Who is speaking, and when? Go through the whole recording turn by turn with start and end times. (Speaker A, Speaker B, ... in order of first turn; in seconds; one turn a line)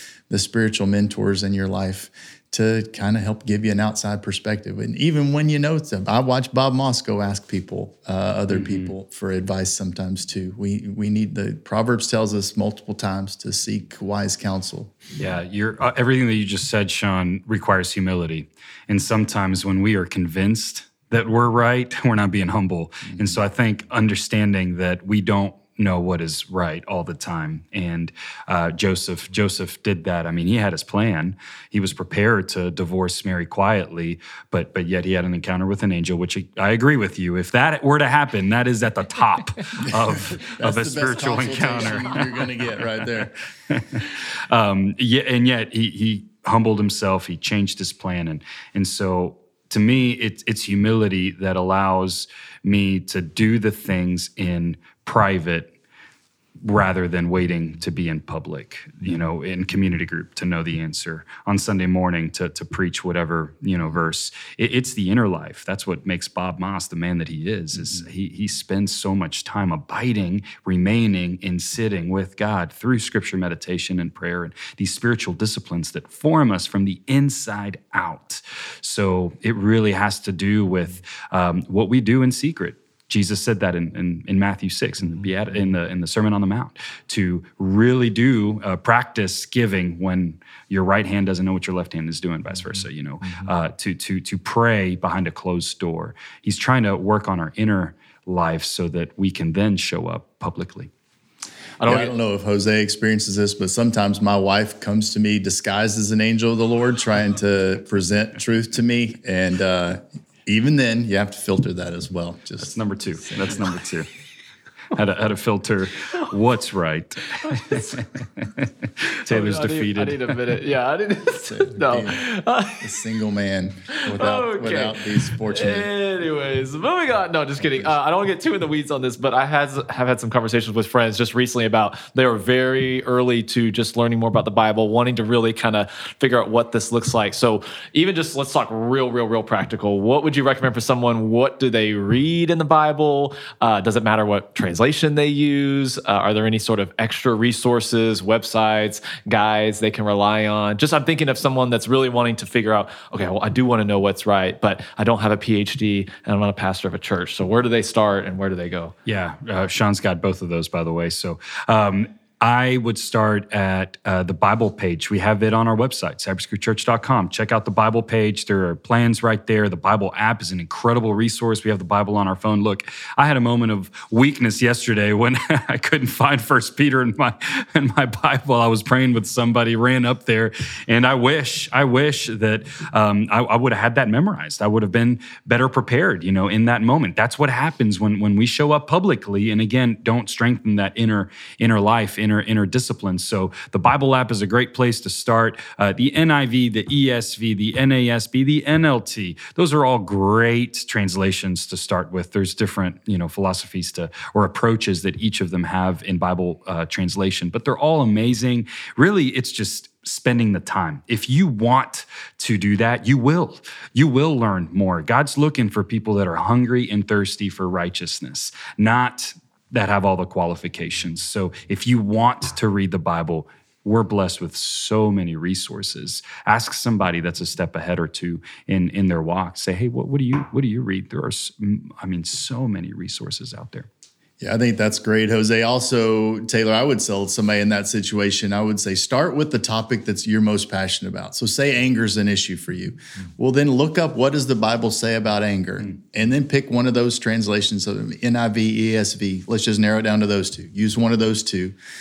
Speaker A: 0.3-14.9
Speaker B: 8.5-8.9
Speaker B: 15.2-42.5
Speaker A: 23.1-23.4
Speaker A: 40.6-43.4
Speaker B: 43.7-55.7
Speaker B: 56.6-100.9
Speaker C: 101.8-102.1
Speaker A: 101.8-113.6
Speaker B: 112.6-114.1
Speaker B: 114.9-120.3
Speaker C: 119.3-122.8
Speaker A: 121.4-122.3
Speaker A: 122.8-125.9
Speaker C: 123.9-158.9
Speaker B: 159.1-233.9
Speaker A: 234.4-251.8